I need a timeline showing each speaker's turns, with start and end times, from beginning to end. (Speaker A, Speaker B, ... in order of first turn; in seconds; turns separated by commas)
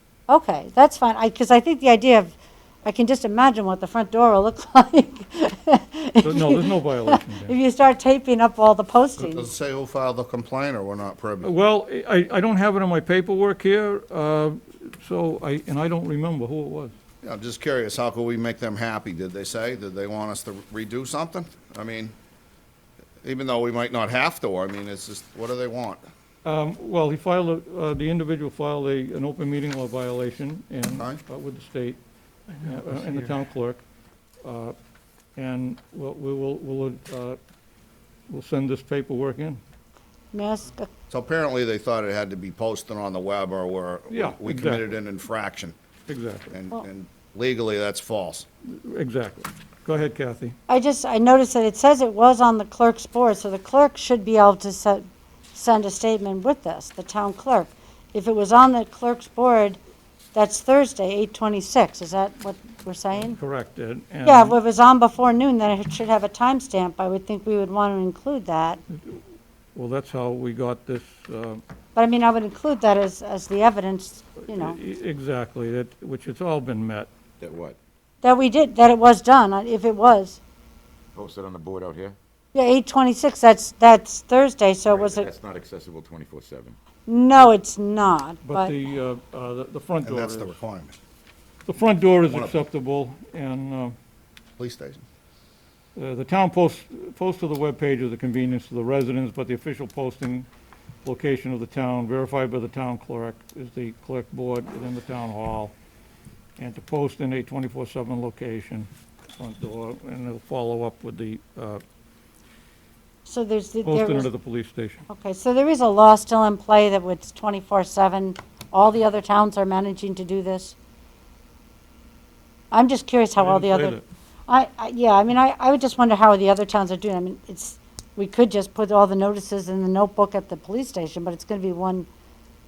Speaker A: 0.3-9.5, Speaker B: 6.2-7.5, Speaker C: 9.2-11.5, Speaker B: 11.4-16.9, Speaker C: 17.2-22.1, Speaker C: 23.2-26.0, Speaker B: 26.4-32.0, Speaker B: 32.6-33.8, Speaker B: 34.4-34.7, Speaker B: 35.4-37.4, Speaker B: 38.3-39.6, Speaker A: 40.3-40.9, Speaker C: 41.1-45.7, Speaker B: 44.1-44.8, Speaker B: 46.1-46.5, Speaker C: 46.5-48.5, Speaker B: 48.6-50.5, Speaker A: 50.7-59.8, Speaker A: 60.3-63.4, Speaker B: 63.1-64.6, Speaker A: 64.2-68.8, Speaker B: 68.9-69.2, Speaker B: 69.7-71.6, Speaker A: 72.0-74.8, Speaker B: 74.5-77.1, Speaker D: 77.4-77.8, Speaker A: 78.2-80.4, Speaker D: 81.1-82.2, Speaker A: 82.5-85.3, Speaker D: 84.8-86.8, Speaker A: 87.1-88.7, Speaker B: 88.4-90.6, Speaker C: 90.0-91.0, Speaker B: 91.7-93.9, Speaker C: 92.3-92.6, Speaker C: 94.6-95.0, Speaker B: 96.0-100.5, Speaker B: 101.0-105.7, Speaker B: 106.6-111.8, Speaker A: 113.2-114.3, Speaker B: 113.8-115.0, Speaker A: 115.1-120.7, Speaker A: 122.7-132.1, Speaker B: 123.4-124.0